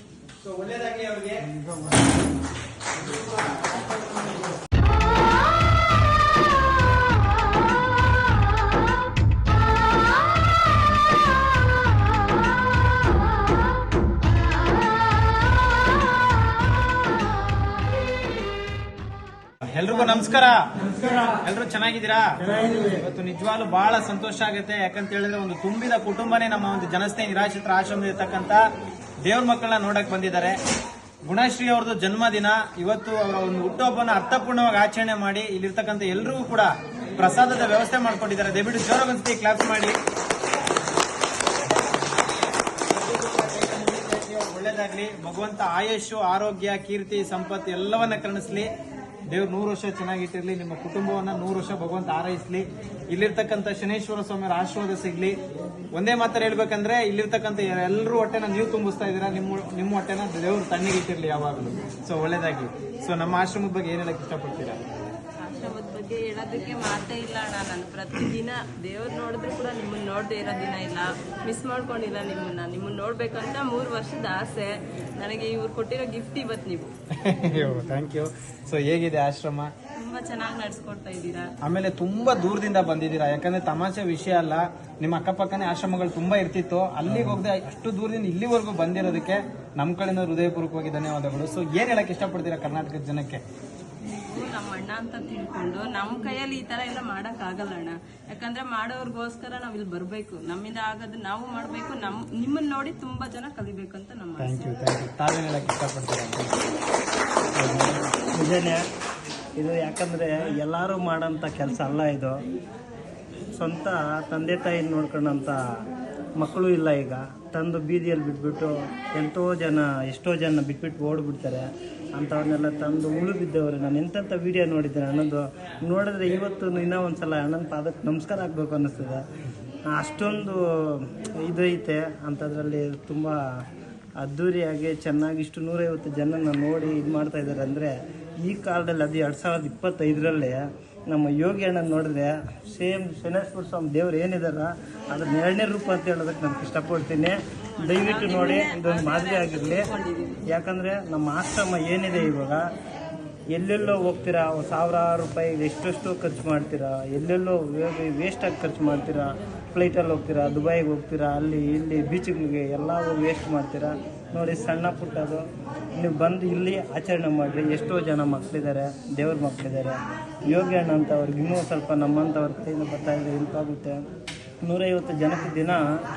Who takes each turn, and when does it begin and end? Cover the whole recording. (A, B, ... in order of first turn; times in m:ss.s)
0:00.4-0:01.6 A
0:19.7-0:28.7 A
0:29.2-0:30.6 A
0:31.2-0:40.0 A
0:43.1-0:48.7 A
0:49.3-0:55.4 A
0:56.0-1:04.9 A
1:05.4-1:16.9 B
1:17.1-1:19.7 A
1:20.0-1:21.5 B
1:21.6-1:33.4 A
1:34.1-1:44.7 B
1:44.4-1:46.6 A
1:47.6-1:48.8 C
1:49.6-1:52.4 C
1:53.6-1:55.8 C
1:56.4-2:09.3 C
2:09.9-2:13.7 C
2:14.2-2:29.9 C
2:27.7-2:30.4 B
2:30.5-2:32.7 C
2:33.5-2:54.0 C
2:54.6-2:55.9 C